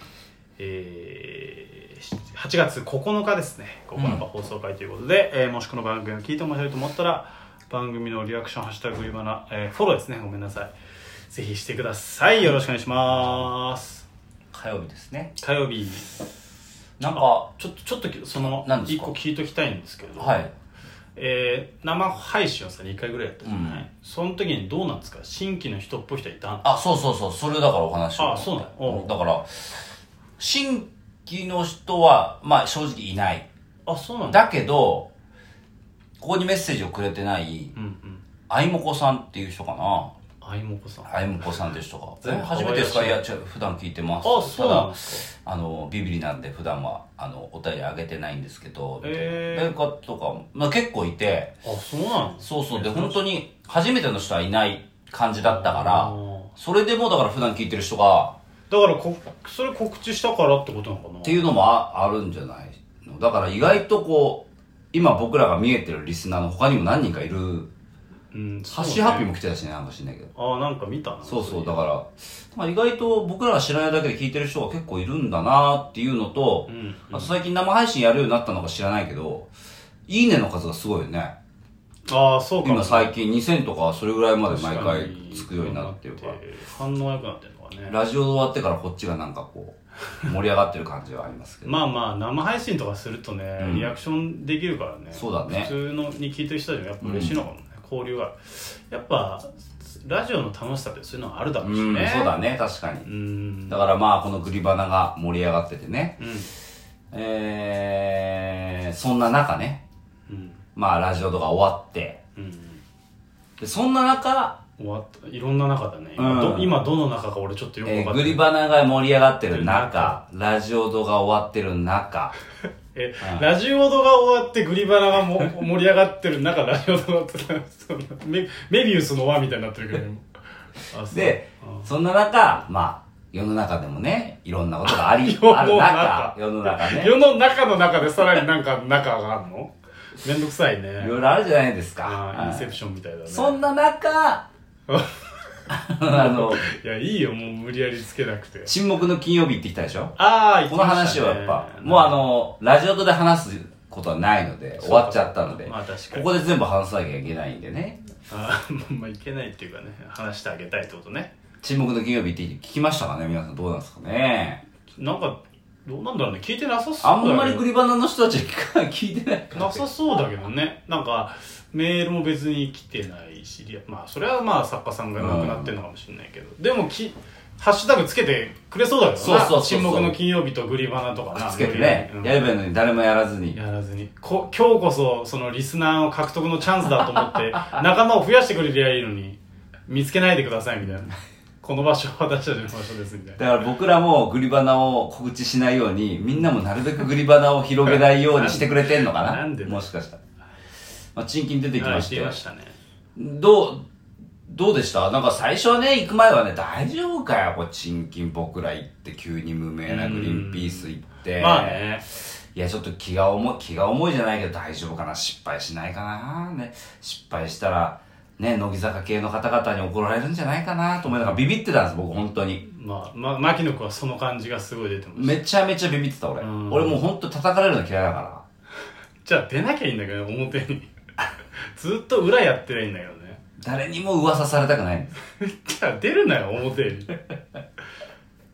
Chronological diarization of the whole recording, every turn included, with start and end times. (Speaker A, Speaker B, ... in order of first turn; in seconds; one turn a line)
Speaker A: 0.6-10.7
Speaker B: 4.0-4.2
Speaker A: 11.3-14.1
Speaker B: 13.1-13.5
Speaker B: 14.5-15.3
Speaker A: 15.4-16.1
Speaker B: 17.0-17.5
Speaker A: 17.1-20.4
Speaker B: 18.4-19.1
Speaker B: 20.2-20.5
Speaker A: 21.2-26.7
Speaker B: 23.4-23.9
Speaker B: 26.6-29.8
Speaker A: 28.2-29.2
Speaker B: 30.4-33.5
Speaker A: 33.9-34.4
Speaker B: 34.3-35.1
Speaker B: 36.2-37.7
Speaker A: 37.8-38.2
Speaker B: 38.5-40.1
Speaker A: 40.4-41.1
Speaker B: 41.0-51.6
Speaker A: 42.2-43.3
Speaker A: 44.2-45.3
Speaker A: 49.0-49.8
Speaker A: 51.6-53.2
Speaker B: 52.4-58.4
Speaker A: 55.4-56.5
Speaker A: 58.7-61.4
Speaker B: 61.2-67.7
Speaker A: 68.3-69.3
Speaker B: 68.7-70.3
Speaker A: 70.3-71.8
Speaker B: 71.2-79.5
Speaker A: 76.7-77.3
Speaker B: 80.1-81.3
Speaker A: 82.1-83.1
Speaker B: 82.6-86.4
Speaker A: 84.5-88.0
Speaker B: 87.9-91.7
Speaker A: 91.7-102.4
Speaker B: 93.6-93.9
Speaker B: 95.1-95.7
Speaker B: 97.0-97.4
Speaker B: 101.6-103.1
Speaker A: 103.0-103.8
Speaker B: 103.7-106.2
Speaker A: 106.2-106.5
Speaker B: 107.1-109.8
Speaker A: 110.3-110.6
Speaker B: 110.8-112.2
Speaker A: 112.4-112.8
Speaker B: 113.6-114.6
Speaker A: 114.8-118.4
Speaker B: 116.2-116.8
Speaker B: 117.8-122.3
Speaker A: 119.5-120.2
Speaker A: 123.0-130.2
Speaker A: 130.9-131.9
Speaker B: 131.1-137.2
Speaker A: 134.9-141.2
Speaker B: 141.0-142.7
Speaker A: 142.0-143.6
Speaker B: 143.3-144.5
Speaker A: 144.9-145.3
Speaker B: 145.7-146.7
Speaker A: 146.0-148.7
Speaker B: 148.7-158.0
Speaker A: 150.2-152.2
Speaker A: 154.8-156.3
Speaker A: 158.3-161.3
Speaker B: 161.6-164.6
Speaker A: 165.0-167.7
Speaker B: 167.0-169.8
Speaker A: 169.5-182.5
Speaker B: 175.2-175.8
Speaker B: 179.2-180.2
Speaker B: 181.3-183.6
Speaker A: 183.5-193.4
Speaker B: 193.4-200.2
Speaker A: 197.9-199.8
Speaker B: 201.2-202.4
Speaker A: 201.8-202.8
Speaker B: 203.2-203.8
Speaker B: 204.5-212.0
Speaker A: 209.9-212.0
Speaker B: 212.5-222.6
Speaker A: 222.6-225.4
Speaker B: 225.2-228.4
Speaker A: 226.4-227.0
Speaker A: 229.2-230.9
Speaker A: 231.7-233.4
Speaker B: 233.6-235.1
Speaker A: 235.4-237.2